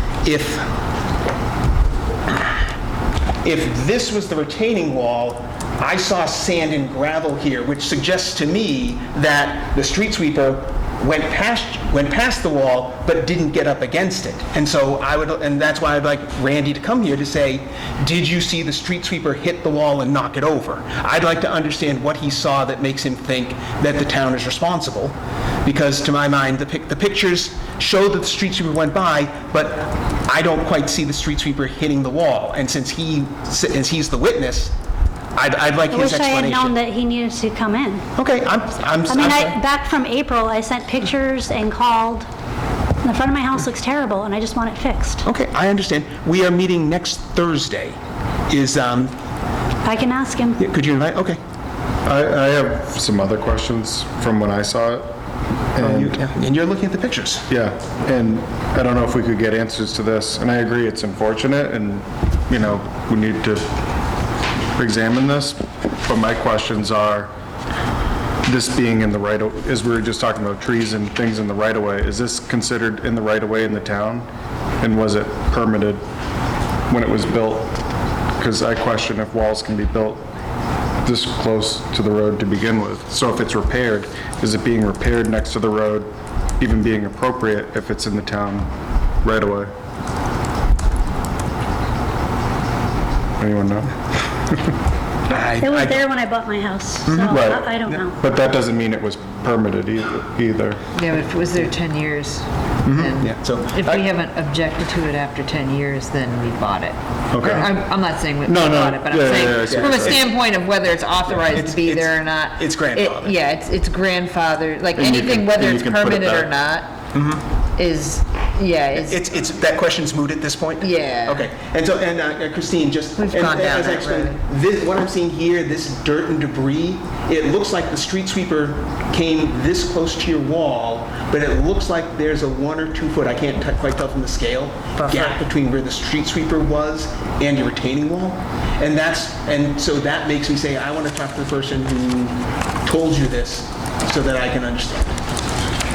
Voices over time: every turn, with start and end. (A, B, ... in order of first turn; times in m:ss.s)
0:00.2-0:00.7 A
0:03.4-0:34.8 A
0:35.4-0:36.8 A
0:35.9-0:38.1 B
0:38.2-0:39.6 A
0:39.1-0:42.3 B
0:43.0-0:45.2 B
0:45.2-0:48.0 A
0:48.5-0:49.1 A
0:49.8-0:50.6 B
0:50.6-0:51.4 A
0:52.0-0:55.1 C
0:55.8-0:56.3 C
0:55.8-0:57.5 A
0:57.5-1:03.7 C
1:04.8-1:07.3 C
1:08.5-1:14.3 C
1:14.8-1:16.0 C
1:16.9-1:17.7 C
1:18.4-1:20.2 C
1:21.0-1:26.1 C
1:26.6-1:28.7 C
1:29.2-1:29.7 C
1:33.4-1:34.6 C
1:35.3-1:36.0 A
1:35.3-1:38.2 B
1:37.1-1:38.0 A
1:37.3-1:40.8 C
1:41.0-1:56.9 D
1:42.8-1:44.0 A
1:47.3-1:47.8 C
1:48.4-1:50.2 C
1:49.7-1:50.3 A
1:51.3-1:53.4 A
1:55.0-1:56.5 C
1:57.1-1:57.4 A
1:57.8-1:59.2 D
1:58.9-2:25.2 A
2:00.8-2:01.5 D
2:03.2-2:04.4 D
2:15.0-2:15.3 D